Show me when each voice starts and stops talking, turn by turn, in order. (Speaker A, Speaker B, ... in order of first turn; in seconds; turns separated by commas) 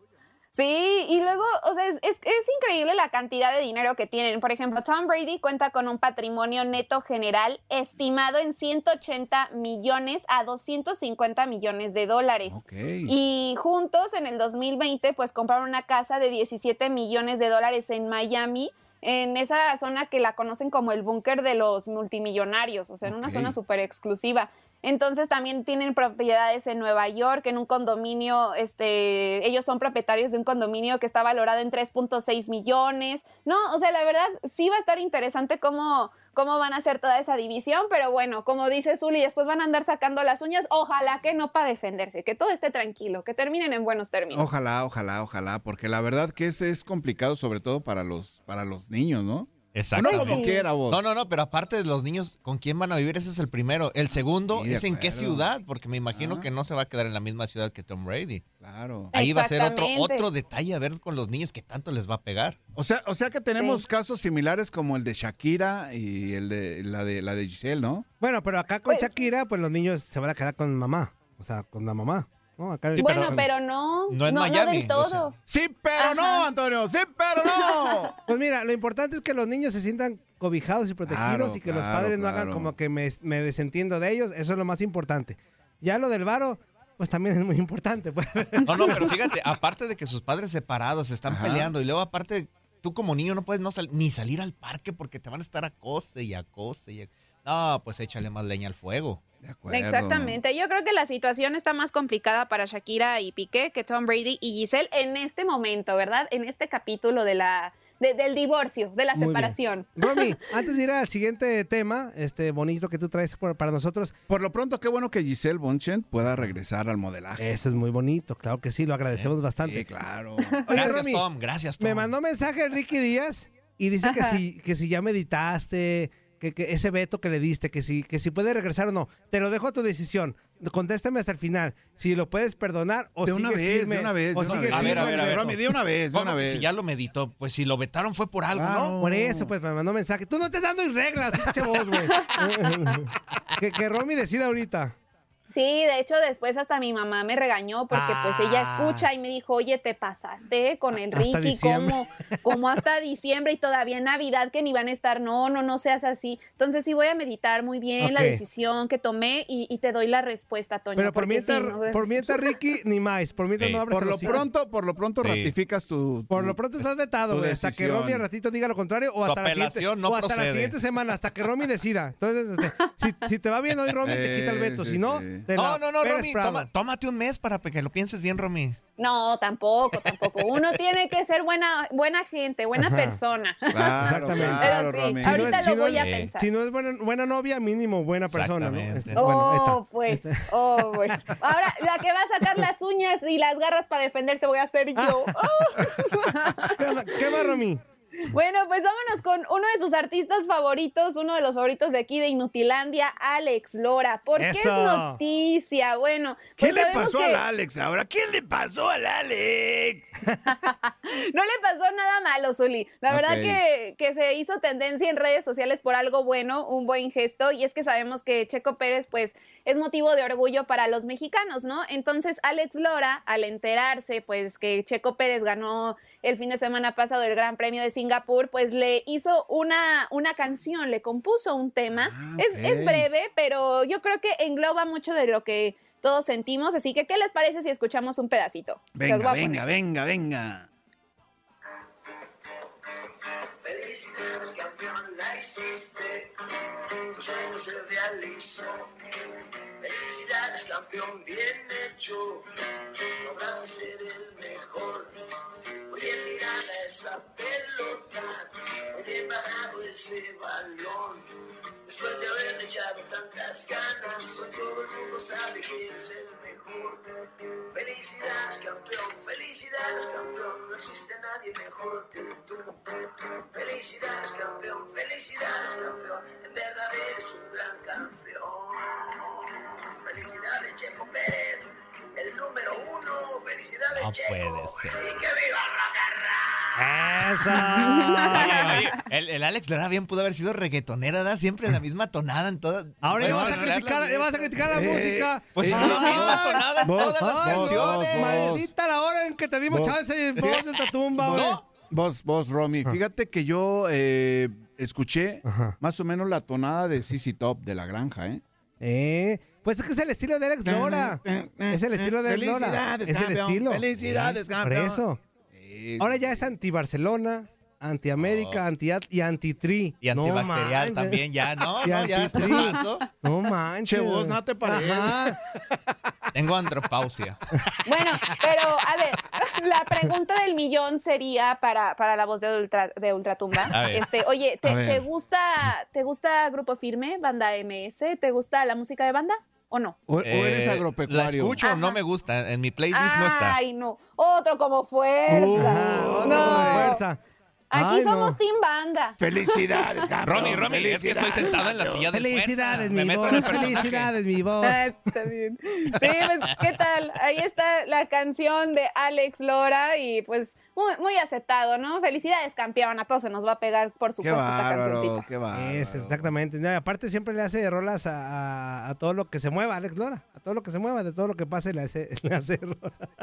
Speaker A: 0.5-44.5, Speaker B: 12.5-13.1, Speaker B: 23.1-23.6, Speaker B: 44.3-51.0, Speaker C: 49.7-58.4, Speaker A: 50.0-50.7, Speaker B: 54.1-55.5, Speaker B: 56.1-56.5, Speaker B: 58.6-59.1, Speaker A: 59.1-60.3, Speaker C: 59.1-62.6, Speaker B: 62.7-68.0, Speaker A: 63.5-63.8, Speaker D: 68.2-73.5, Speaker A: 68.9-69.3, Speaker C: 73.0-73.5, Speaker A: 73.0-75.4, Speaker C: 74.1-75.3, Speaker B: 75.5-78.1, Speaker A: 76.0-76.5, Speaker A: 77.5-77.9, Speaker D: 78.3-89.1, Speaker B: 81.1-82.7, Speaker C: 88.6-99.2, Speaker B: 91.3-91.7, Speaker B: 99.4-100.4, Speaker A: 99.7-110.4, Speaker D: 109.1-114.1, Speaker B: 114.3-117.6, Speaker D: 117.4-119.9, Speaker B: 119.6-120.6, Speaker D: 120.7-121.2, Speaker C: 120.7-122.1, Speaker D: 121.8-135.5, Speaker A: 124.0-124.4, Speaker B: 133.2-136.7, Speaker C: 134.4-138.9, Speaker B: 138.5-139.5, Speaker D: 139.0-144.9, Speaker A: 142.1-142.5, Speaker A: 145.5-162.5, Speaker D: 147.9-149.1, Speaker D: 151.1-152.6, Speaker D: 158.0-158.4, Speaker D: 161.0-164.4, Speaker B: 163.9-166.6, Speaker C: 165.2-165.5, Speaker D: 166.3-176.7, Speaker B: 167.3-168.3, Speaker C: 169.2-170.8, Speaker B: 174.0-175.5, Speaker C: 175.6-178.8, Speaker A: 179.0-186.5, Speaker D: 182.8-183.2, Speaker B: 183.7-185.7, Speaker D: 184.0-190.5, Speaker C: 185.9-186.3, Speaker C: 188.3-189.2, Speaker A: 189.1-197.6, Speaker D: 194.9-195.4, Speaker D: 196.8-197.8, Speaker A: 198.3-207.4, Speaker D: 204.4-205.2, Speaker B: 206.6-210.1, Speaker A: 210.4-239.7, Speaker B: 213.1-213.6, Speaker B: 231.9-233.1, Speaker B: 238.9-240.7, Speaker E: 243.6-246.3, Speaker E: 247.1-248.9, Speaker E: 249.8-252.4, Speaker E: 253.2-255.1, Speaker E: 255.9-261.2, Speaker E: 261.9-267.0, Speaker E: 267.7-287.2, Speaker C: 284.0-285.0, Speaker D: 286.8-288.8, Speaker A: 287.8-288.9, Speaker C: 288.2-298.6, Speaker D: 293.0-301.6, Speaker B: 293.2-293.8, Speaker B: 294.6-298.7, Speaker B: 299.7-308.4, Speaker C: 301.2-301.6, Speaker D: 305.4-305.8, Speaker D: 308.8-315.2, Speaker B: 310.6-316.5, Speaker D: 316.0-321.2, Speaker C: 318.2-318.6, Speaker C: 320.0-323.0, Speaker D: 321.8-325.4, Speaker B: 323.8-325.4, Speaker C: 326.3-327.4, Speaker A: 327.9-340.0, Speaker C: 333.7-334.1, Speaker B: 334.6-335.1, Speaker B: 340.1-341.6, Speaker C: 340.2-343.6, Speaker A: 341.6-342.0, Speaker A: 342.9-347.0, Speaker B: 345.3-346.9, Speaker D: 345.6-347.2, Speaker A: 347.7-350.1, Speaker D: 347.7-348.4, Speaker B: 349.2-352.0, Speaker C: 350.2-354.1, Speaker D: 352.1-354.9, Speaker A: 354.6-365.3, Speaker B: 364.2-366.3, Speaker D: 365.5-373.1